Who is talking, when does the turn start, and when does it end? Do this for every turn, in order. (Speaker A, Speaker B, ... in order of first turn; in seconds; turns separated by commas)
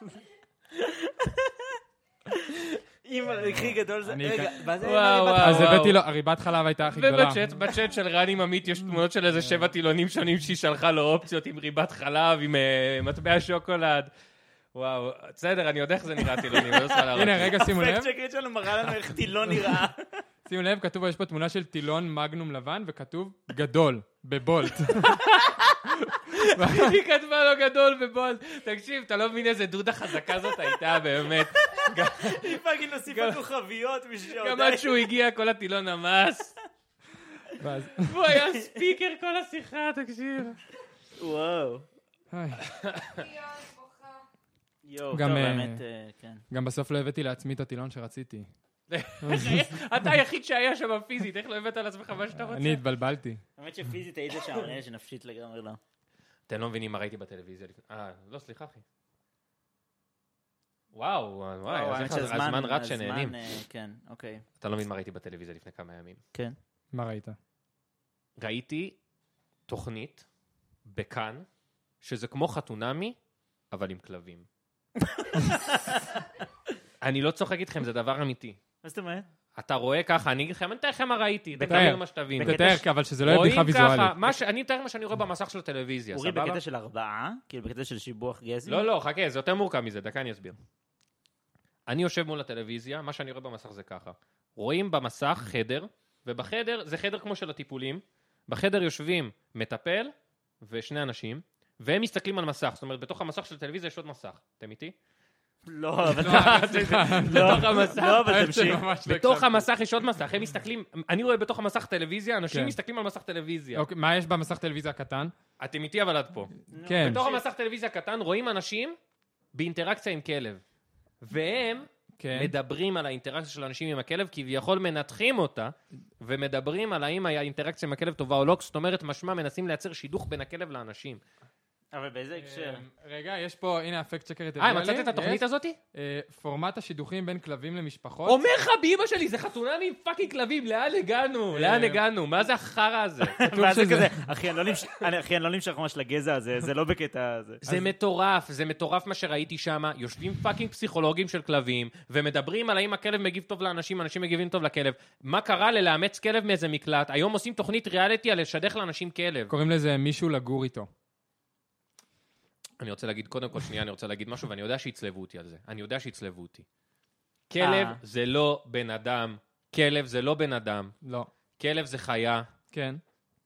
Speaker A: 0.7-5.8, Speaker B: 4.0-4.7, Speaker C: 4.8-6.0, Speaker B: 5.3-7.4, Speaker C: 6.8-14.1, Speaker C: 14.7-17.6, Speaker A: 16.4-20.1, Speaker B: 17.1-18.1, Speaker B: 20.4-25.3, Speaker C: 25.2-25.8, Speaker B: 25.9-26.9, Speaker C: 26.3-33.4, Speaker A: 31.7-34.9, Speaker C: 34.3-36.5, Speaker B: 37.6-38.1, Speaker C: 38.0-40.6, Speaker A: 41.2-41.9, Speaker B: 42.3-42.7, Speaker C: 42.6-43.3, Speaker A: 44.8-46.4, Speaker B: 45.1-45.8, Speaker B: 46.5-48.5, Speaker C: 48.9-52.8, Speaker B: 49.2-49.8, Speaker B: 52.3-53.4, Speaker A: 53.6-55.8, Speaker C: 56.5-58.8, Speaker C: 60.9-63.4, Speaker A: 61.6-64.5, Speaker C: 64.6-66.2, Speaker B: 66.9-67.4, Speaker C: 68.4-69.0, Speaker C: 69.7-70.2, Speaker C: 70.8-71.5, Speaker C: 72.0-73.2, Speaker C: 73.7-74.5, Speaker A: 75.0-76.1, Speaker C: 77.0-78.6, Speaker A: 78.8-79.2, Speaker C: 79.5-86.6, Speaker A: 81.5-82.8, Speaker B: 81.7-84.3, Speaker A: 86.1-88.9, Speaker C: 88.7-90.5, Speaker C: 91.9-105.0, Speaker A: 105.7-108.8, Speaker C: 106.2-113.8, Speaker B: 106.2-109.7, Speaker B: 112.5-112.8, Speaker B: 113.7-115.3, Speaker C: 115.6-119.0, Speaker A: 116.7-117.5, Speaker B: 116.8-117.2, Speaker C: 119.5-120.6, Speaker C: 121.2-131.2, Speaker B: 122.2-122.5, Speaker A: 131.9-132.8, Speaker B: 132.4-135.4, Speaker C: 134.6-135.8, Speaker B: 135.9-138.4, Speaker C: 138.2-143.4, Speaker B: 141.5-142.0, Speaker A: 143.2-147.6, Speaker B: 143.4-144.3, Speaker C: 147.6-159.5, Speaker B: 159.5-160.9, Speaker C: 162.8-166.7, Speaker C: 167.5-170.9, Speaker A: 167.6-168.0, Speaker B: 171.0-171.3, Speaker C: 171.6-172.5, Speaker B: 172.7-173.0